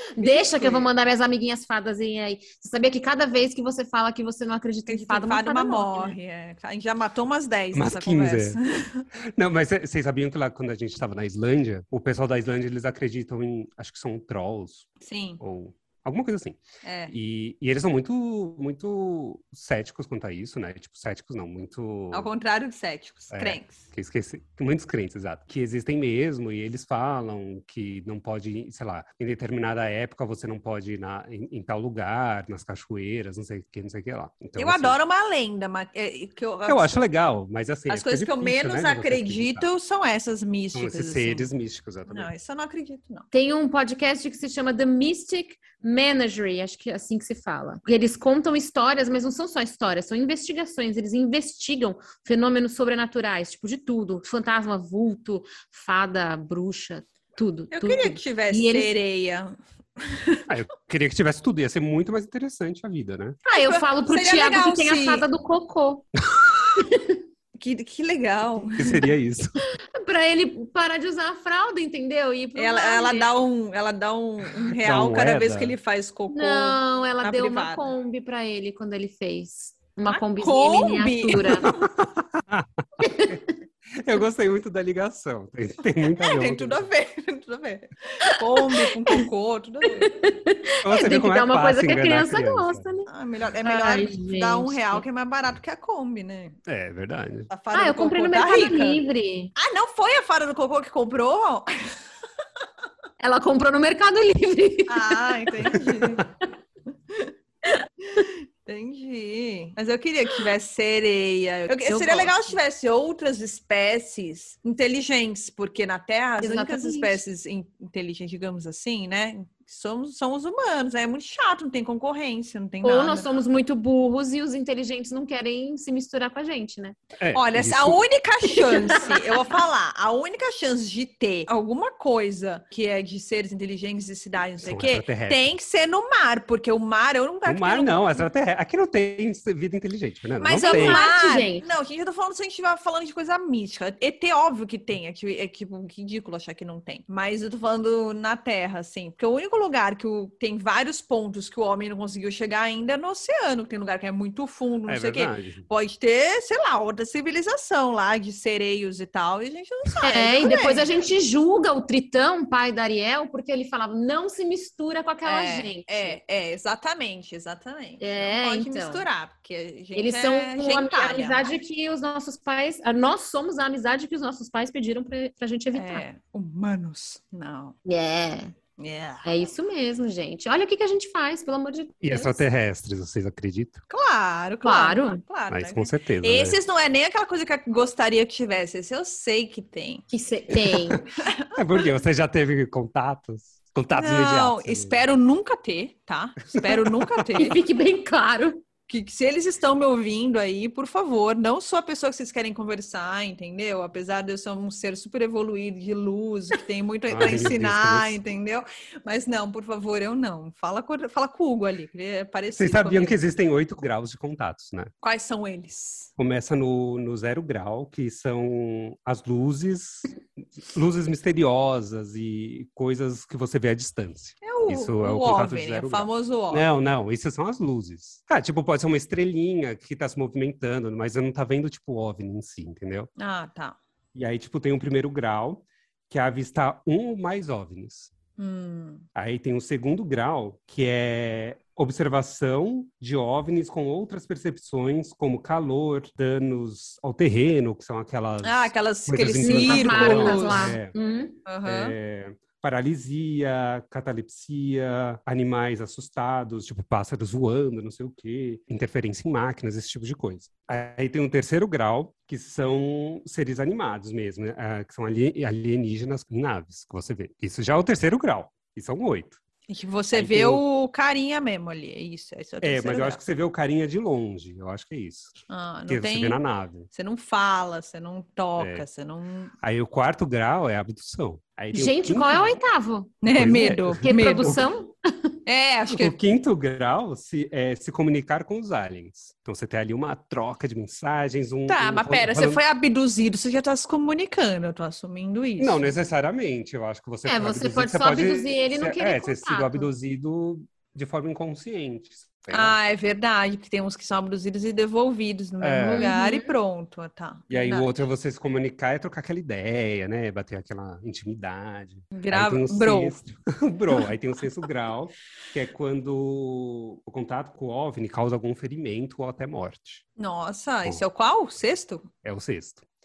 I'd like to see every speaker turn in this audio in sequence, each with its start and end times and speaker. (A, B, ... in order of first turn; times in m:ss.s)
0:00.1-0:06.2 A
0:00.2-0:00.9 B
0:04.9-0:09.0 B
0:07.7-0:08.6 C
0:09.3-0:14.9 C
0:15.0-0:15.4 B
0:15.4-0:22.3 C
0:16.8-0:17.1 B
0:22.1-0:23.8 B
0:23.3-0:35.0 C
0:34.6-0:37.0 B
0:36.6-0:39.7 C
0:37.9-0:41.5 B
0:40.7-0:42.3 C
0:42.1-0:43.2 B
0:43.3-0:58.9 A
0:57.7-1:00.4 B
1:00.5-1:03.4 C
1:03.4-1:06.1 A
1:03.5-1:05.2 B
1:06.8-1:07.2 A
1:07.5-1:09.1 B
1:08.7-1:09.6 C
1:09.9-1:13.3 A
1:12.5-1:17.9 B
1:14.8-1:15.8 C
1:16.3-1:21.7 A
1:20.1-1:21.7 B
1:21.6-1:23.4 C
1:23.0-1:23.4 A
1:23.9-1:26.9 C
1:26.2-1:30.1 B
1:28.2-1:29.2 A
1:30.0-1:33.1 A
1:30.8-1:32.8 C
1:33.1-1:36.6 B
1:33.6-1:35.0 A
1:36.6-1:37.5 C
1:37.5-1:39.0 B
1:37.7-1:39.5 A
1:39.6-1:42.0 B
1:43.2-1:45.7 A
1:44.9-1:46.3 B
1:48.0-2:03.3 B
1:51.8-1:52.4 A
1:56.4-1:57.2 A
2:02.8-2:07.0 A
2:07.2-2:08.0 C
2:07.3-2:18.2 B
2:08.6-2:09.4 A
2:14.6-2:15.5 C
2:17.4-2:21.0 C
2:20.4-2:41.0 B
2:20.6-2:21.6 A
2:34.9-2:35.7 C
2:40.0-2:46.2 A
2:45.2-2:51.5 B
2:48.0-2:49.0 A
2:49.9-2:56.0 A
2:55.7-2:57.8 B
2:57.8-2:58.5 A
2:58.8-2:59.2 B
2:59.2-3:02.4 A
3:02.0-3:03.8 C
3:03.9-3:10.0 B
3:04.6-3:05.2 A
3:05.5-3:06.6 C
3:10.1-3:11.0 A
3:11.2-3:11.8 B
3:11.5-3:15.0 C
3:13.9-3:17.6 B
3:16.5-3:17.3 C
3:17.3-3:18.6 A
3:18.9-3:33.2 B
3:27.1-3:28.2 C
3:32.6-3:34.9 C
3:35.0-3:36.1 B
3:36.2-3:53.1 C
3:44.4-3:46.6 B
3:53.2-3:53.8 B
3:54.1-3:58.1 C
3:58.4-3:59.0 B
3:59.1-4:10.9 C
4:08.4-4:10.8 B
4:09.4-4:11.4 A
4:11.4-4:11.9 B
4:11.6-4:29.4 C
4:29.7-4:33.2 B
4:30.1-4:30.6 C
4:32.6-4:36.9 C
4:35.5-4:36.4 B
4:36.9-4:39.5 B
4:38.6-4:38.8 C
4:39.6-4:42.5 C
4:41.7-4:43.2 A
4:43.2-4:44.6 B
4:43.3-4:44.6 C
4:43.9-4:44.9 A
4:45.4-4:46.2 B
4:45.9-4:52.6 C
4:51.7-4:55.9 B
4:55.6-5:02.8 C
4:57.2-4:59.9 A
5:02.5-5:08.0 B
5:05.6-5:06.1 C
5:05.9-5:06.5 A
5:07.5-5:20.0 C
5:12.1-5:13.2 B
5:20.2-5:22.1 B
5:22.2-5:22.9 C